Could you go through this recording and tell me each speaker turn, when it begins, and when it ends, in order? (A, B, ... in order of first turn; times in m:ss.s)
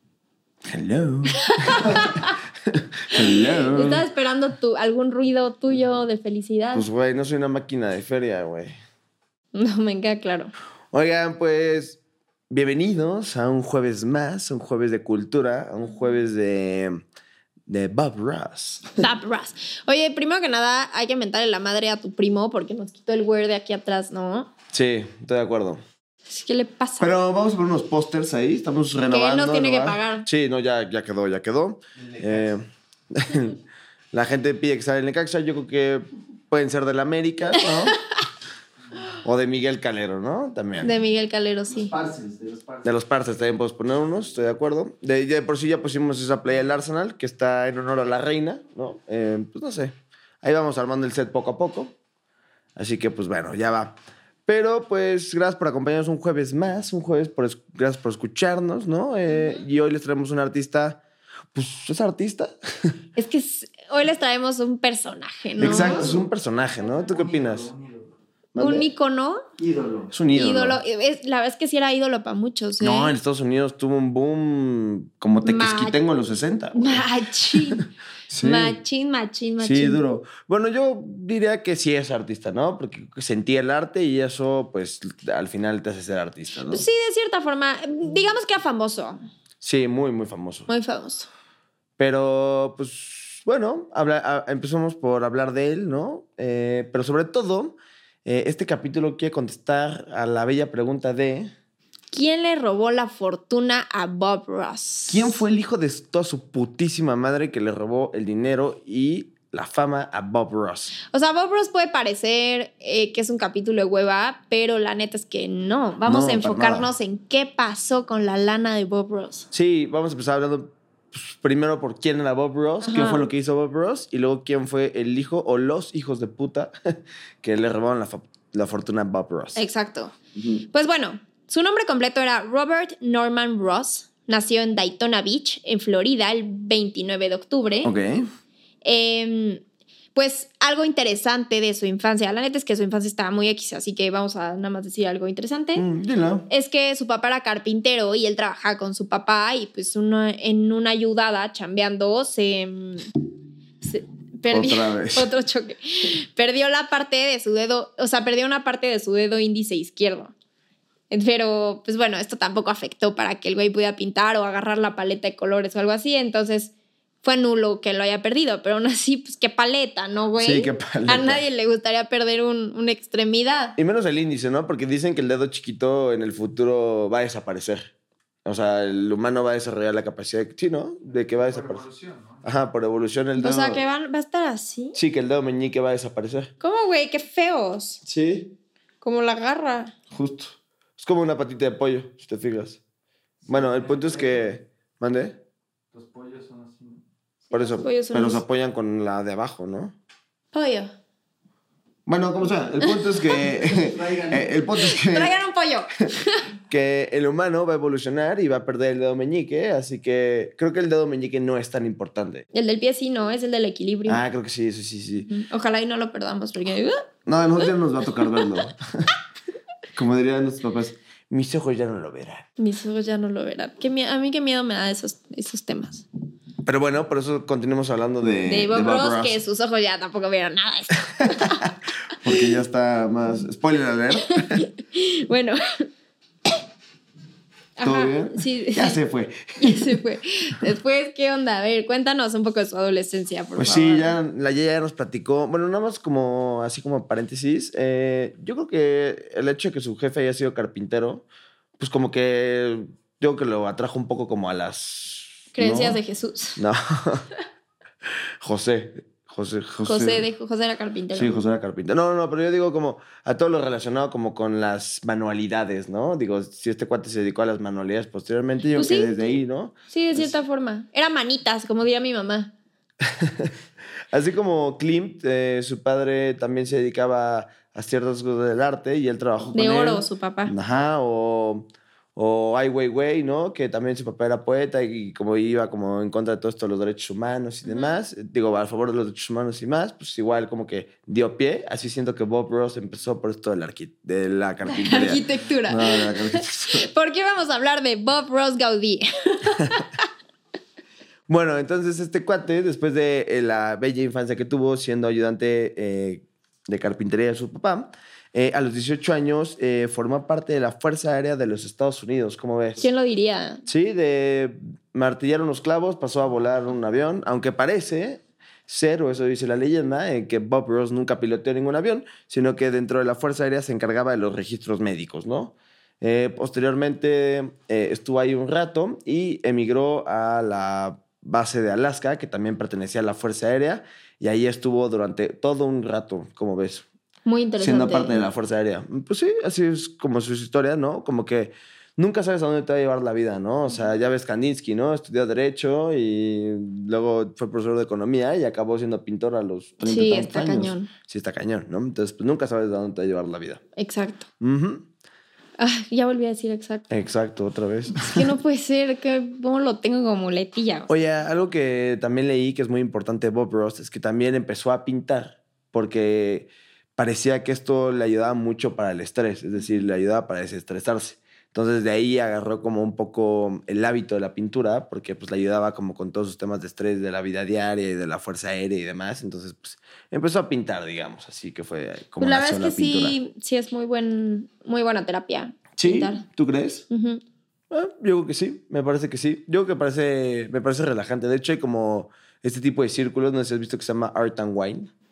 0:00.7-0:04.0 A
0:01.4-0:02.4 B
0:03.4-0:06.9 B
0:06.7-0:08.7 A
0:09.5-0:10.5 B
0:10.9-0:17.0 A
0:17.7-0:18.9 A
0:19.0-0:24.5 B
0:24.7-0:25.8 A
0:26.3-0:27.1 B
0:27.0-0:33.6 A
0:29.1-0:30.3 B
0:32.0-0:32.5 C
0:34.1-0:38.0 A
0:37.6-0:37.9 B
0:39.2-0:40.9 A
0:40.8-0:41.9 B
0:41.7-0:42.9 C
0:42.8-0:51.9 A
0:52.8-0:54.0 A
0:54.5-1:01.0 A
0:59.3-0:59.6 B
1:01.5-1:02.9 A
1:03.2-1:06.2 B
1:05.6-1:07.7 A
1:05.6-1:08.1 C
1:08.5-1:08.9 A
1:08.6-1:09.4 B
1:09.6-1:10.1 C
1:10.1-1:10.8 A
1:10.3-1:13.1 B
1:12.8-1:18.8 A
1:15.4-1:16.0 B
1:16.8-1:17.9 B
1:18.4-1:20.0 B
1:19.6-1:26.8 A
1:26.7-1:29.2 B
1:29.6-1:30.7 A
1:30.7-1:31.3 B
1:32.0-1:41.5 A
1:42.1-1:45.4 B
1:45.1-1:50.9 A
1:51.1-1:59.5 B
1:56.0-1:56.9 A
1:59.5-2:06.7 A
2:02.8-2:03.2 B
2:07.4-2:09.6 A
2:09.6-2:10.2 B
2:10.4-2:10.6 A
2:10.7-2:17.9 B
2:17.8-2:18.3 A
2:18.8-2:19.6 B
2:20.1-2:25.9 B
2:25.8-2:26.5 A
2:26.5-2:33.1 B
2:33.8-2:40.3 B
2:34.5-2:35.3 A
2:41.1-2:46.7 B
2:47.2-2:53.8 B
2:50.4-2:51.4 A
2:53.8-2:57.9 A
2:58.4-3:01.8 A
3:01.1-3:02.4 C
3:02.4-3:03.8 A
3:03.4-3:05.0 B
3:04.9-3:06.5 A
3:06.6-3:08.0 B
3:08.0-3:08.5 A
3:09.0-3:09.9 B
3:10.1-3:12.8 A
3:13.5-3:14.5 C
3:13.5-3:15.4 A
3:15.9-3:17.0 C
3:17.5-3:20.0 A
3:17.6-3:18.4 B
3:20.5-3:20.9 B
3:22.1-3:25.3 A
3:23.4-3:24.6 C
3:24.8-3:26.4 B
3:26.7-3:32.5 A
3:32.5-3:34.2 B
3:34.1-3:35.3 A
3:35.2-3:37.1 B
3:37.3-3:39.1 A
3:38.2-3:38.5 B
3:40.0-3:42.5 A
3:42.6-3:46.0 B
3:46.6-3:49.4 A
3:48.5-3:51.7 B
3:51.2-3:54.7 A
3:54.3-3:55.8 B
3:57.8-3:59.0 B
3:57.8-4:00.0 A
3:59.6-4:04.2 B
4:03.6-4:11.3 A
4:11.8-4:16.0 A
4:15.6-4:16.6 B
4:16.6-4:17.3 A
4:18.4-4:20.3 A
4:19.8-4:21.4 B
4:21.1-4:30.4 A
4:28.8-4:29.1 B
4:29.9-4:32.5 B
4:33.0-4:33.5 A
4:34.1-4:56.9 A
4:39.5-4:40.5 B
4:47.7-4:47.9 B
4:54.7-5:00.1 B
5:01.3-5:12.8 A
5:12.8-5:13.6 B
5:13.7-5:36.8 A
5:37.3-5:38.2 B
5:37.6-5:53.6 A
5:49.8-5:50.9 B
5:53.8-5:54.3 B
5:54.4-5:54.9 A
5:55.6-5:56.8 B
5:56.9-5:58.3 A
5:58.0-6:00.9 B
6:00.9-6:23.2 A
6:22.2-6:26.2 B
6:25.8-6:26.8 A
6:26.9-6:27.2 B
6:27.7-6:34.9 A